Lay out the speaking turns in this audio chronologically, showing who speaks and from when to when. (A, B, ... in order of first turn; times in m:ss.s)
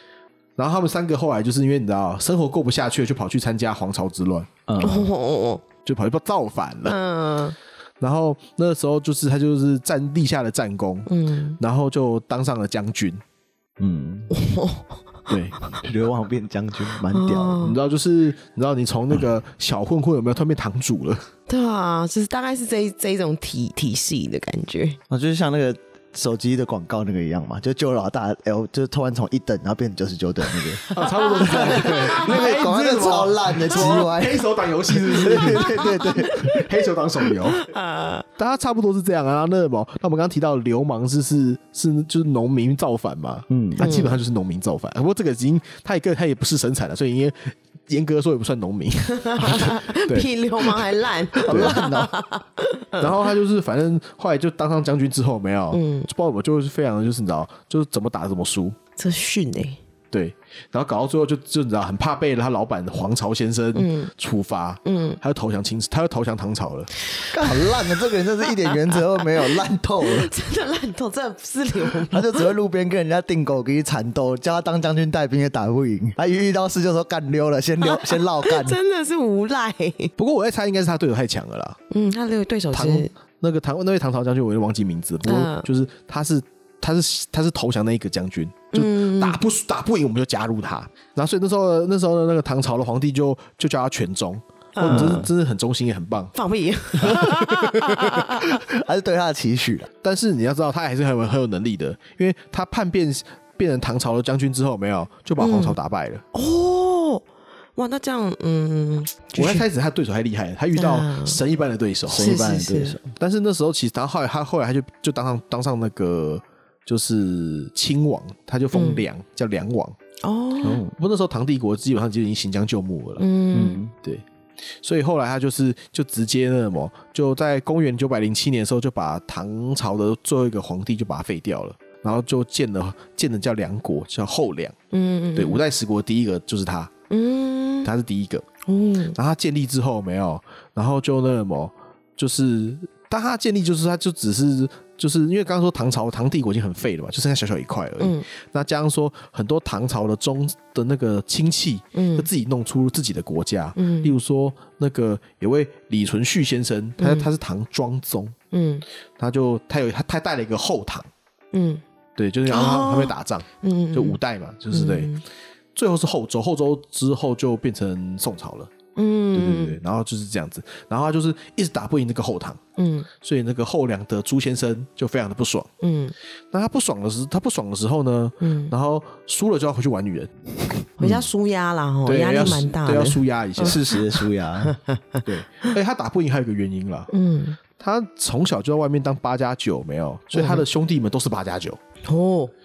0:00.6-0:04.6 A
0:04.7-0:05.1 B
0:04.8-0:05.6 C
0:05.8-0:07.0 A
0:06.8-0:07.6 C
0:08.0-0:11.1 A
0:11.1-0:11.6 C
0:11.6-0:13.2 A
0:13.8-0:14.3 B
0:14.3-0:15.8 C
0:15.3-0:15.6 A
0:15.8-0:17.7 B
0:17.1-0:17.8 C
0:17.6-0:21.3 A
0:21.5-0:25.0 C
0:25.1-0:36.5 B
0:30.8-0:32.6 C
0:30.9-0:37.7 A
0:33.7-0:34.1 C
0:35.0-0:36.7 C
0:37.3-0:38.2 C
0:38.4-0:50.8 A
0:43.5-0:43.9 B
0:43.8-0:44.2 C
0:49.1-0:53.1 C
0:51.5-0:52.1 B
0:51.5-0:51.8 A
0:53.0-0:58.8 A
0:55.7-0:56.1 C
0:59.0-0:59.8 C
1:00.1-1:06.9 A
1:03.8-1:04.1 C
1:04.8-1:05.2 C
1:07.2-1:09.5 C
1:07.3-1:10.3 B
1:10.0-1:12.5 C
1:12.1-1:18.8 B
1:17.8-1:20.1 C
1:20.2-1:21.8 A
1:21.9-1:23.1 C
1:22.7-1:36.4 A
1:25.2-1:25.7 C
1:28.7-1:29.4 C
1:34.8-1:35.3 C
1:34.9-1:35.3 B
1:36.4-1:38.6 C
1:37.0-1:37.9 A
1:38.6-1:39.9 B
1:40.0-1:46.2 A
1:45.4-1:45.8 C
1:46.3-1:47.2 C
1:47.8-1:49.6 C
1:49.4-1:52.4 A
1:50.8-1:51.4 C
1:52.1-1:53.1 B
1:52.1-1:53.0 C
1:53.2-2:00.0 A
1:58.7-1:59.0 C
2:00.2-2:00.9 C
2:00.6-2:01.0 B
2:00.9-2:03.2 A
2:03.2-2:03.8 C
2:03.5-2:03.9 B
2:04.8-2:14.8 A
2:14.9-2:15.6 C
2:15.4-2:16.9 A
2:17.1-2:17.9 C
2:17.8-2:18.4 A
2:18.7-2:19.2 C
2:19.2-2:38.4 A
2:28.0-2:28.2 C
2:31.9-2:32.3 C
2:33.8-2:34.1 C
2:37.0-2:37.3 C
2:38.5-2:38.8 C
2:39.2-2:41.1 A
2:41.5-2:41.8 C
2:42.2-2:45.1 A
2:42.5-2:44.2 C
2:44.7-2:45.2 C
2:45.8-2:48.7 A
2:49.0-2:49.8 C
2:49.3-2:52.6 A
2:52.8-2:53.1 C
2:53.2-2:55.7 A
2:55.8-2:56.1 C
2:56.5-3:01.2 A
2:58.4-2:58.7 C
3:01.0-3:05.7 C
3:02.1-3:03.9 A
3:03.6-3:04.8 B
3:05.2-3:07.1 A
3:07.1-3:07.6 C
3:07.8-3:11.8 A
3:10.3-3:10.6 C
3:12.0-3:12.5 C